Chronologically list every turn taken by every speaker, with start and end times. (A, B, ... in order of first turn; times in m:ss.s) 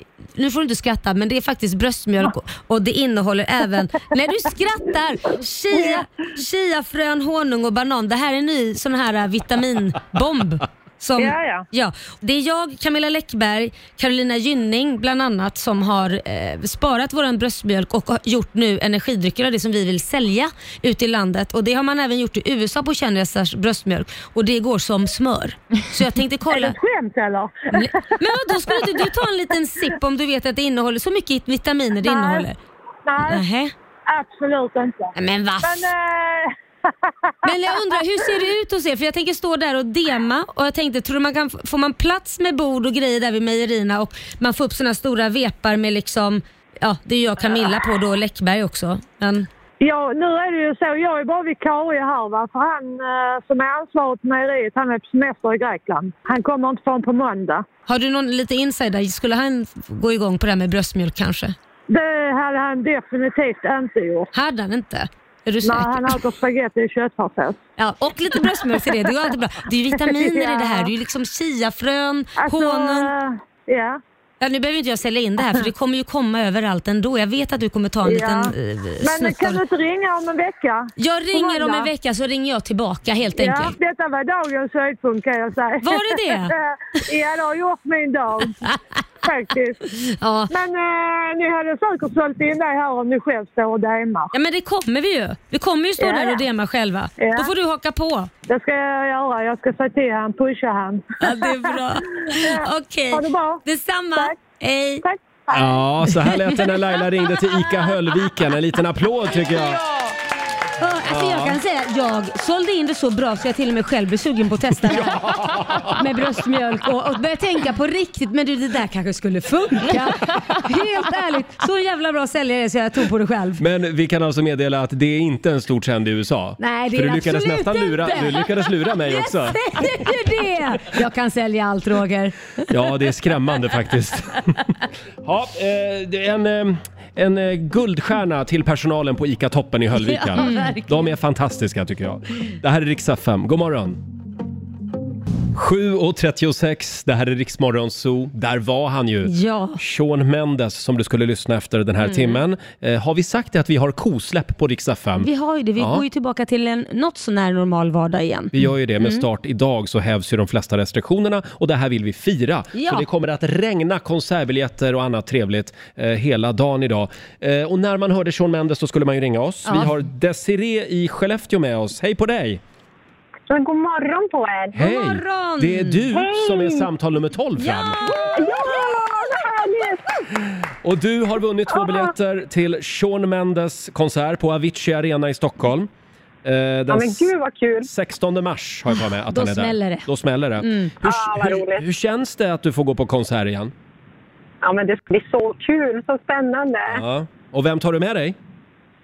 0:00.4-0:26.8 A
0:05.7-0:06.1 B
0:11.2-0:11.6 B
0:26.5-0:28.1 B
0:27.7-0:32.6 A
0:28.7-0:29.1 B
0:32.0-0:32.5 B
0:33.0-0:33.4 B
0:33.2-0:33.7 A
0:34.1-0:38.3 B
0:35.2-0:35.9 A
0:37.4-0:49.5 A
0:49.8-0:57.7 B
0:57.9-1:01.6 A
1:01.9-1:04.3 B
1:04.3-1:06.2 A
1:05.6-1:07.6 B
1:07.8-1:13.1 A
1:08.7-1:09.1 B
1:10.0-1:10.9 B
1:12.4-1:14.0 B
1:14.4-1:19.6 A
1:18.0-1:21.9 B
1:21.0-1:23.8 A
1:23.4-1:28.6 B
1:25.8-1:26.5 A
1:29.2-1:29.8 B
1:30.0-1:30.5 A
1:30.5-1:34.3 B
1:34.3-1:38.3 A
1:36.0-1:36.4 B
1:37.2-1:37.5 B
1:38.5-1:43.6 B
1:41.2-1:45.0 A
1:45.0-1:45.6 B
1:45.5-1:49.8 C
1:46.2-1:46.8 A
1:50.8-2:03.6 A
1:51.1-1:51.6 C
1:54.9-1:56.0 C
2:03.6-2:09.9 C
2:06.6-2:12.7 A
2:12.7-2:14.6 C
2:15.2-2:24.0 C
2:19.9-2:21.1 A
2:25.5-2:36.0 C
2:29.3-2:29.8 A
2:35.2-2:39.2 A
2:38.5-2:52.6 C
2:42.8-2:43.0 A
2:49.7-2:49.9 A
2:53.5-2:54.8 D
2:54.7-2:58.1 C
2:54.8-2:56.1 A
2:56.1-2:56.9 D
2:57.6-2:58.1 A
2:58.3-3:00.2 D
3:00.8-3:05.9 C
3:06.4-3:13.7 C
3:06.9-3:07.9 D
3:09.3-3:10.1 A
3:10.6-3:10.9 A
3:11.0-3:11.8 D
3:14.6-3:17.0 D
3:16.9-3:18.4 C